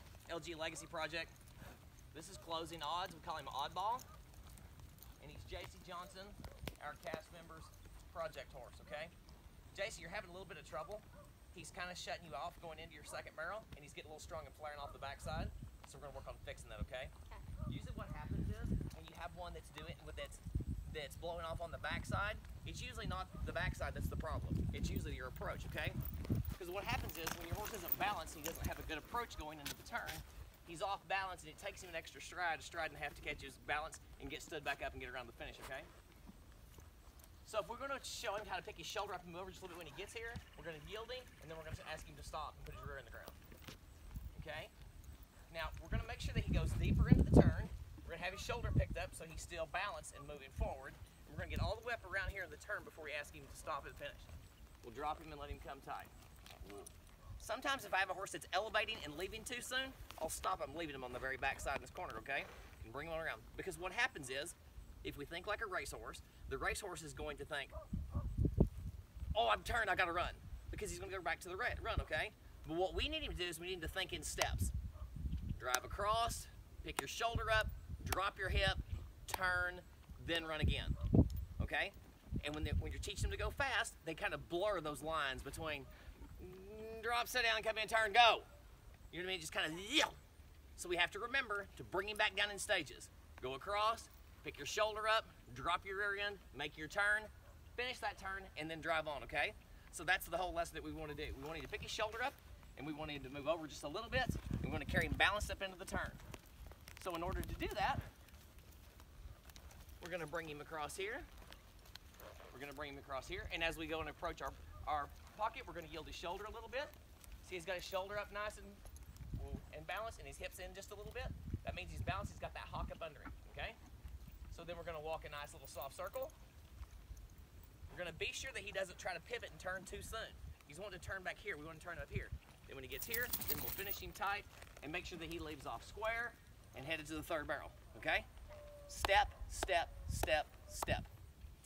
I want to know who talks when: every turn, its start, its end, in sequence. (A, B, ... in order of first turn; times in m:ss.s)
0:00.3-0:01.3 A
0:02.1-0:04.1 A
0:05.2-0:09.1 A
0:09.7-0:17.1 A
0:17.7-0:26.0 A
0:26.6-0:35.9 A
0:37.4-0:43.4 A
0:44.3-0:44.7 A
0:45.5-0:54.3 A
0:54.8-0:56.1 A
0:56.6-1:07.7 A
1:09.3-1:14.7 A
1:15.6-1:20.9 A
1:21.6-1:28.5 A
1:29.1-1:30.2 A
1:30.8-1:46.2 A
1:47.0-1:48.0 A
1:50.0-1:51.3 A
1:52.5-1:58.8 A
1:59.4-2:03.8 A
2:04.5-2:06.4 A
2:07.9-2:18.3 A
2:18.9-2:21.1 A